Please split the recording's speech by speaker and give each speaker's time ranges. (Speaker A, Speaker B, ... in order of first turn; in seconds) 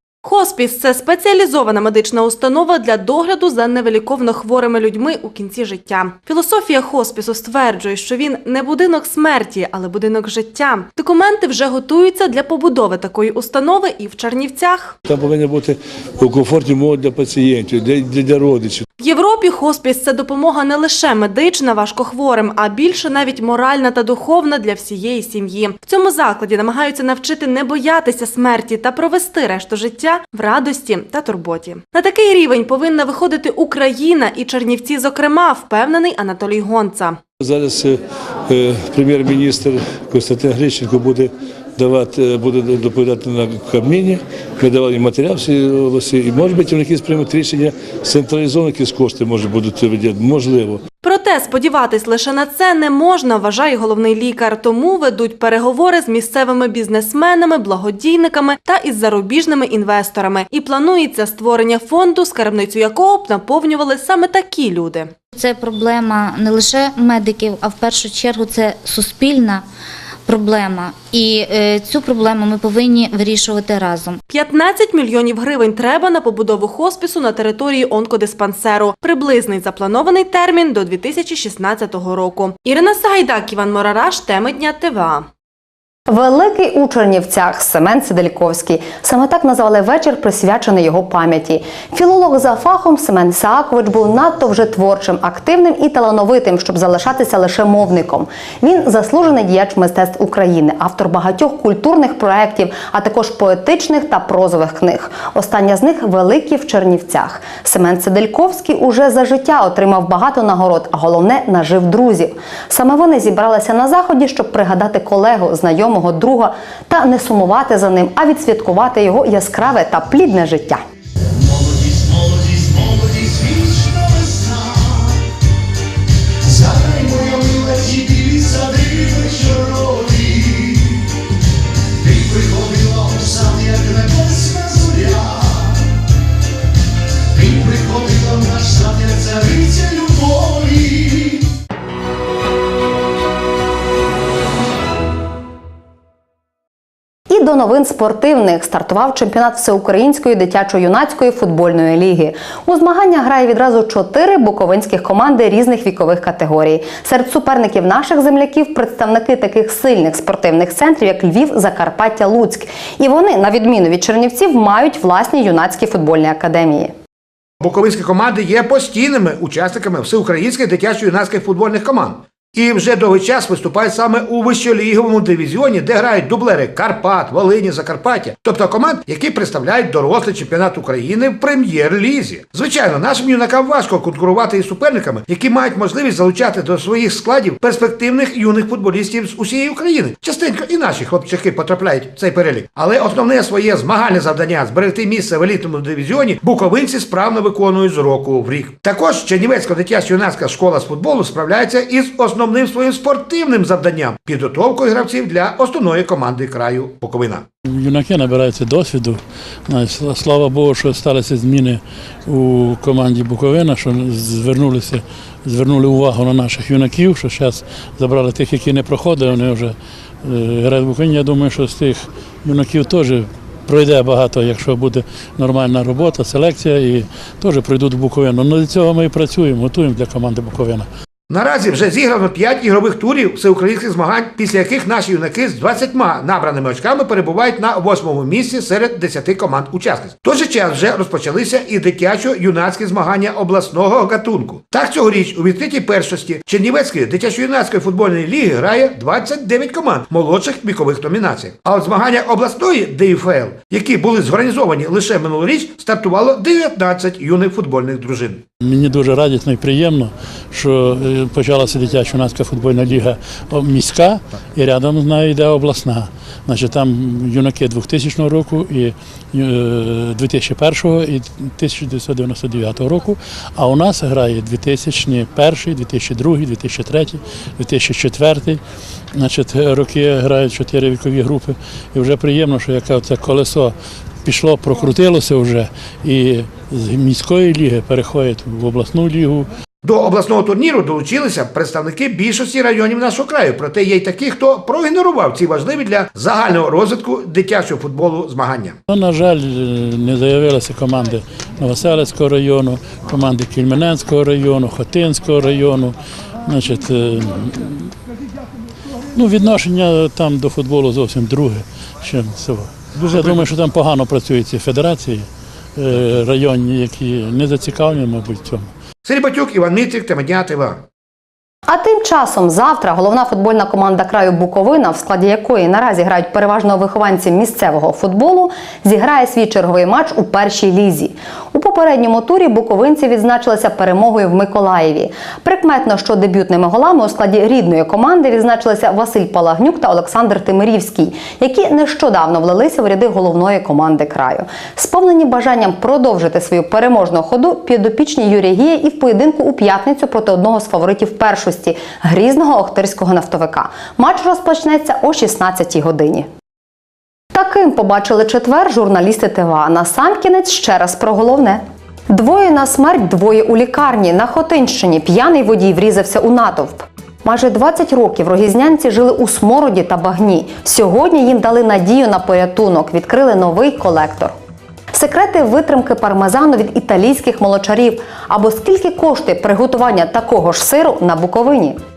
Speaker A: 0.2-14.9, 19.0-37.2, 51.0-65.1, 74.3-85.3
Speaker B: 15.1-18.9, 37.4-50.9
Speaker C: 65.4-69.6, 70.3-74.2
Speaker D: 86.1-120.8, 147.3-166.9, 321.7-356.3, 357.3-374.3, 374.9-381.8
Speaker E: 167.6-207.4, 231.3-258.4, 289.8-298.8, 319.1-320.8
Speaker F: 207.7-230.9, 258.6-278.6, 279.2-283.7, 284.2-289.5, 298.9-307.9, 309.1-318.7